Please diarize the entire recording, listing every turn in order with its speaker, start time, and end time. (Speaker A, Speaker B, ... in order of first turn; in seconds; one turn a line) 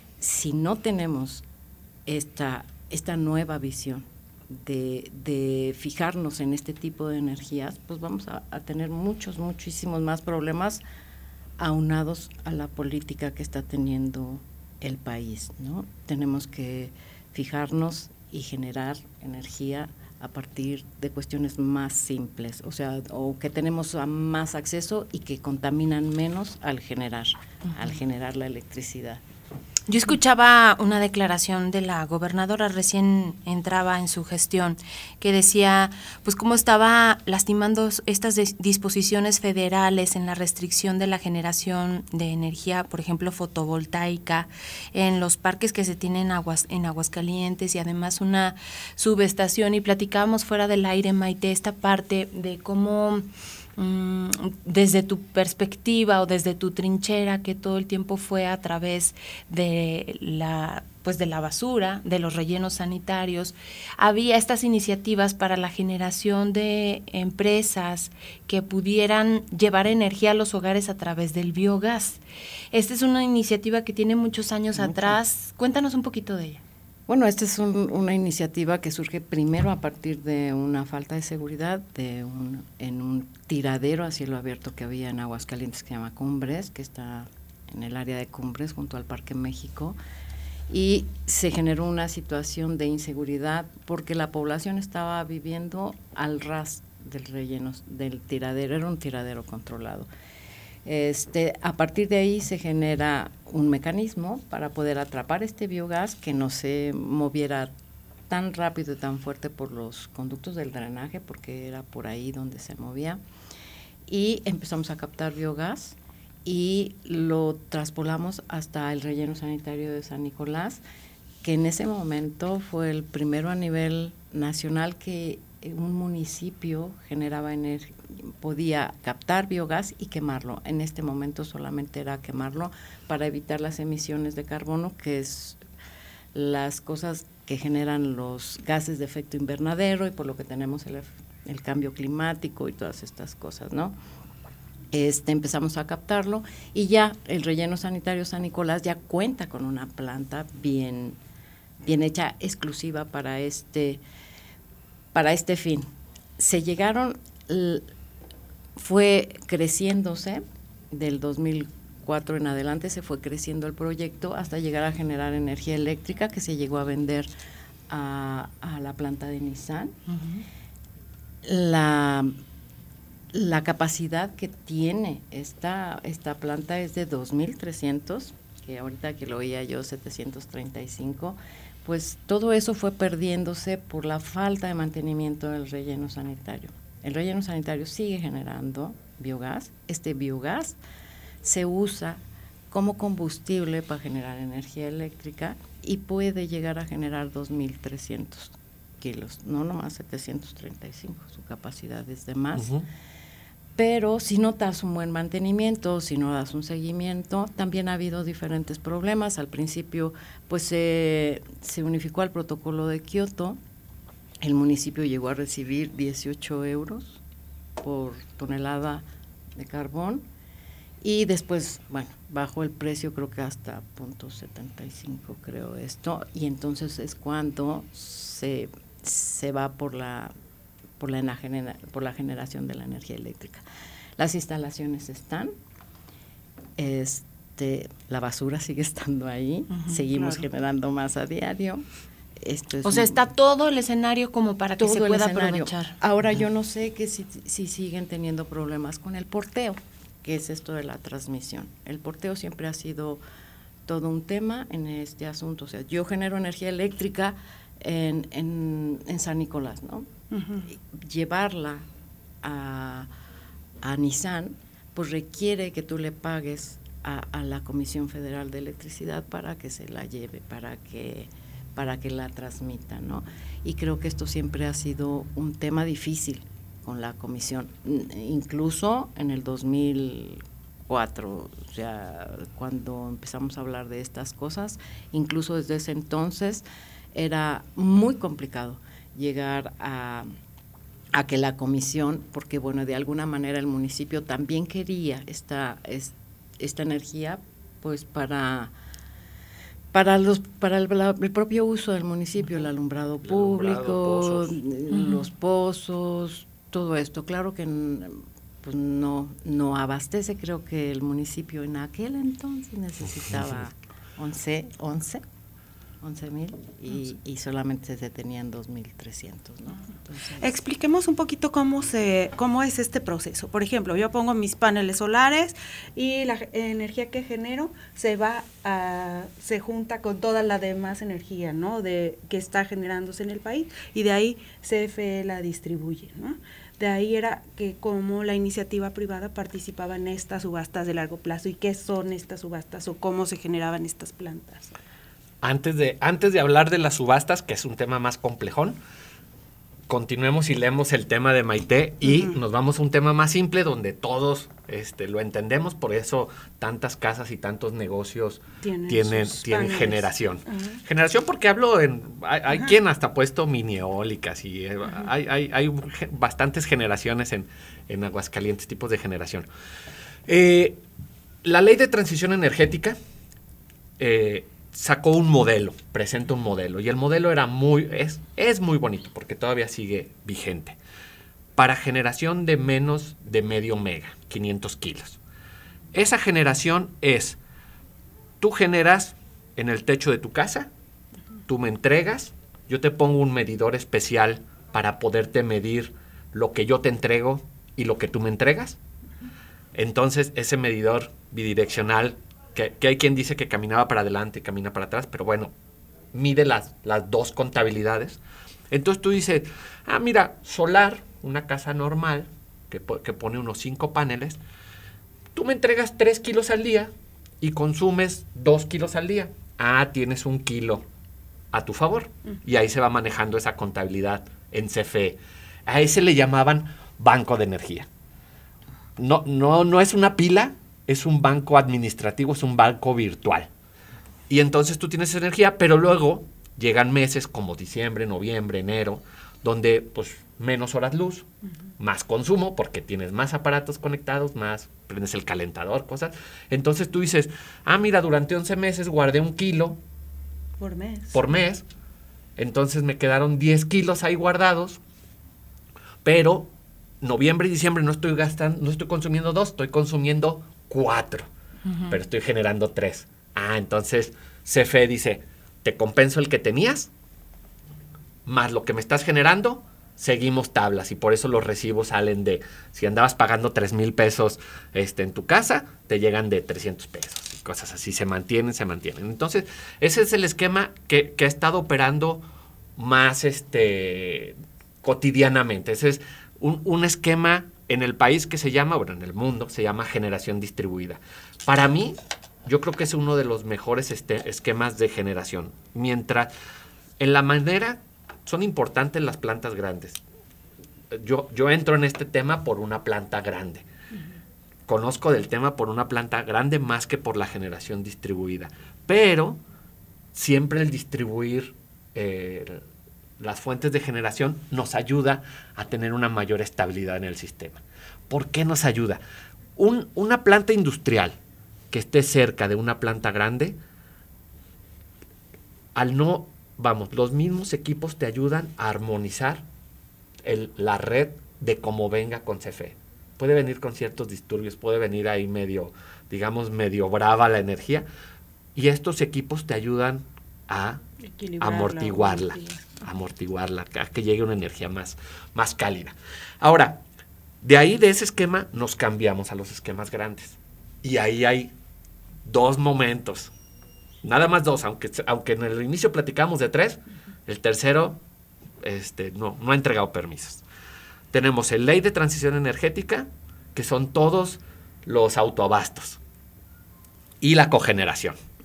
Speaker A: 0.2-1.4
Speaker A: 2.1-10.8
Speaker A: 11.6-29.2
Speaker B: 29.9-72.2
Speaker B: 72.7-76.6
Speaker A: 74.8-75.2
Speaker A: 77.1-90.0
Speaker A: 90.7-100.1
Speaker A: 100.8-107.7
Speaker A: 108.3-113.2
Speaker A: 114.1-120.8
Speaker A: 121.4-135.6
Speaker A: 136.3-144.0
Speaker A: 144.9-151.2
Speaker A: 151.8-154.0
Speaker A: 155.1-157.9
Speaker A: 158.8-167.3
Speaker A: 167.9-170.0
Speaker B: 170.1-170.4
Speaker A: 171.4-172.4
Speaker A: 173.3-190.8
Speaker A: 191.4-202.7
Speaker C: 202.6-202.8
Speaker A: 203.8-213.6
Speaker A: 214.4-217.2
Speaker A: 217.8-219.1
Speaker A: 219.6-220.3
Speaker A: 221.0-230.3
Speaker A: 231.0-233.7
Speaker A: 234.2-235.5
Speaker A: 236.8-241.8
Speaker D: 240.1-240.4
Speaker A: 242.4-243.3
Speaker B: 242.8-246.0
Speaker A: 244.8-253.2
Speaker A: 253.9-260.1
Speaker D: 260.3-260.6
Speaker A: 260.7-261.9
Speaker A: 262.4-263.1
Speaker A: 263.8-290.3
Speaker A: 291.1-298.7
Speaker A: 299.9-315.2
Speaker C: 303.2-304.6
Speaker B: 304.9-305.3
Speaker C: 313.3-313.6
Speaker A: 316.0-320.6
Speaker D: 320.4-344.7
Speaker C: 345.4-348.8
Speaker C: 349.9-369.5
Speaker D: 352.0-352.3
Speaker D: 358.6-360.1
Speaker C: 370.3-370.8
Speaker C: 371.4-373.0
Speaker C: 374.0-380.8
Speaker C: 381.6-385.2
Speaker C: 385.9-387.4
Speaker C: 388.4-390.7
Speaker C: 391.5-398.8
Speaker C: 399.7-405.5
Speaker C: 406.1-414.4
Speaker C: 415.4-420.9
Speaker C: 421.5-427.9
Speaker C: 429.0-433.5
Speaker C: 434.3-441.3
Speaker C: 441.8-449.8
Speaker D: 450.6-451.2
Speaker C: 451.1-451.6
Speaker C: 452.4-454.8
Speaker C: 456.0-461.3
Speaker B: 461.7-462.0
Speaker C: 461.9-466.9
Speaker C: 468.3-482.2
Speaker C: 482.8-496.3
Speaker C: 497.0-500.0
Speaker C: 500.9-503.7
Speaker C: 504.7-509.4
Speaker C: 510.1-512.6
Speaker C: 513.2-519.0
Speaker C: 519.6-521.2
Speaker C: 521.7-523.6
Speaker C: 525.8-529.5
Speaker C: 530.2-537.9
Speaker C: 538.5-540.8
Speaker D: 541.2-542.7
Speaker C: 541.4-546.8
Speaker C: 547.4-551.5
Speaker C: 552.2-553.3
Speaker C: 554.0-558.0
Speaker C: 558.6-560.4
Speaker C: 561.1-566.0
Speaker C: 567.2-568.2